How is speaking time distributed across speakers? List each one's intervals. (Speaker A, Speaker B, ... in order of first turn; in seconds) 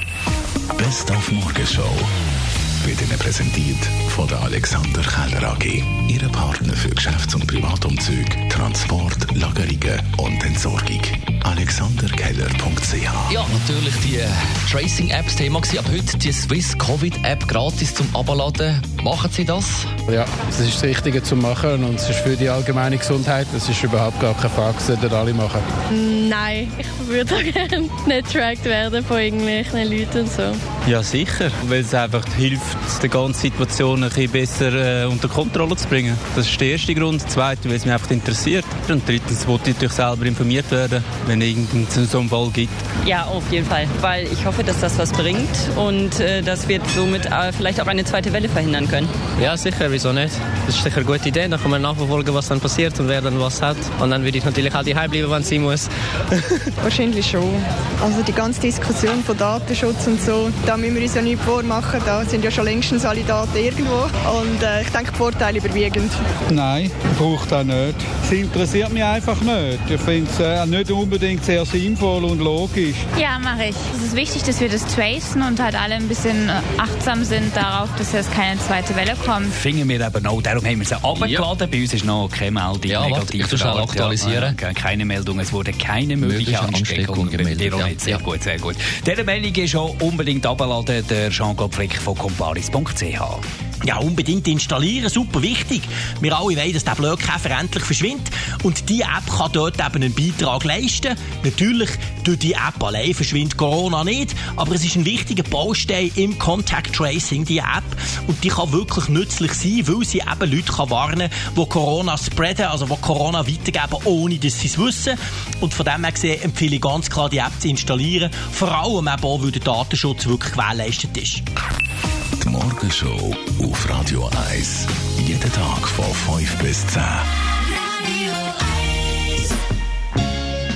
Speaker A: 0.8-2.1, 2.8-13.4, 122.4-127.2
Speaker B: 13.3-19.9, 81.2-81.5, 82.9-84.5, 86.3-88.2
Speaker C: 20.1-25.7
Speaker D: 25.9-30.6
Speaker E: 30.9-42.8
Speaker F: 43.0-49.1
Speaker G: 49.4-56.6
Speaker H: 56.8-66.2
Speaker I: 66.5-73.1
Speaker J: 73.2-79.6
Speaker K: 79.5-93.4
Speaker L: 93.8-121.4